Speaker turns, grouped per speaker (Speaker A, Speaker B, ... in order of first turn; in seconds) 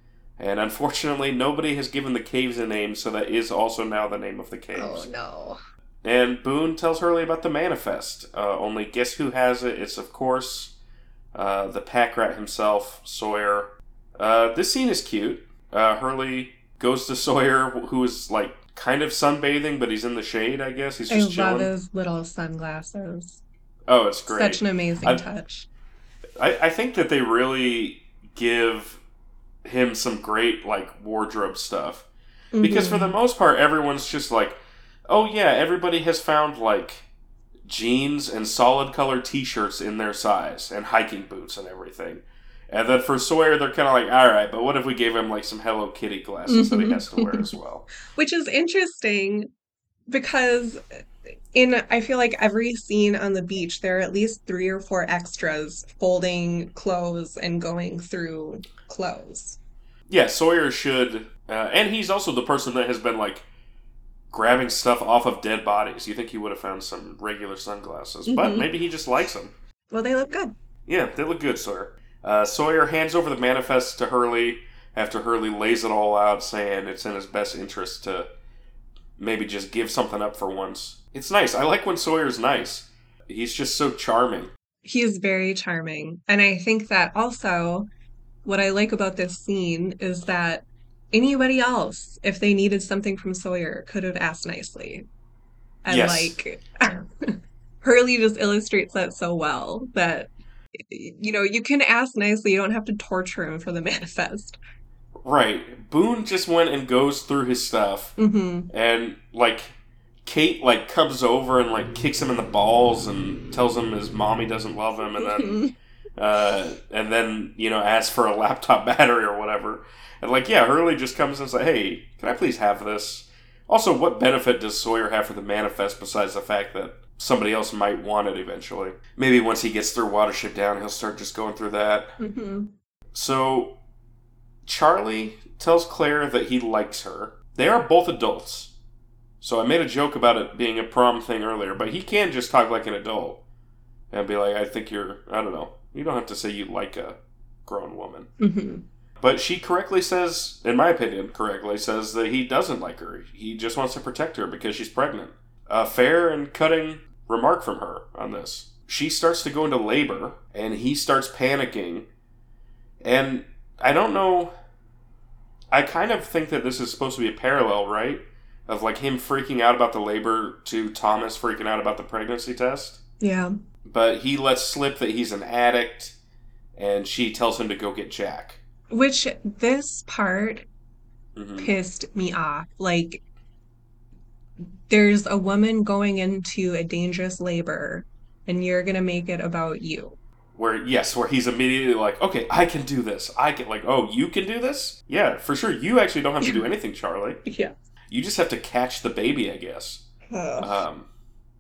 Speaker A: 0.4-5.1, 6.0-10.8, 11.3-21.7, 23.9-25.2, 26.4-29.0, 29.6-32.1, 32.6-34.6, 35.1-37.1, 37.7-47.9, 60.1-63.5, 64.3-69.5, 70.9-78.3, 79.2-84.5, 95.9-96.4, 105.2-108.2, 108.7-115.6, 116.2-132.1, 133.1-133.8, 134.7-138.7, 139.4-143.4, 144.1-148.3, 149.2-162.1, 163.0-164.5, 165.7-173.0, 173.8-176.2, 176.8-178.6, 181.4-181.7, 190.6-197.4, 198.1-200.0, 200.6-201.1
Speaker B: 4.8-5.6, 21.1-23.4, 24.3-25.7, 32.5-33.1, 46.5-47.5, 48.1-49.5, 50.1-50.8, 51.5-59.6, 68.3-68.7, 69.9-70.5, 84.8-87.9, 88.5-95.1, 95.8-104.6, 108.2-108.7, 115.2-115.7, 132.2-132.7, 148.4-148.8, 173.2-173.5, 178.9-180.7, 181.6-183.2, 184.9-190.2, 197.4-197.7, 200.3-200.8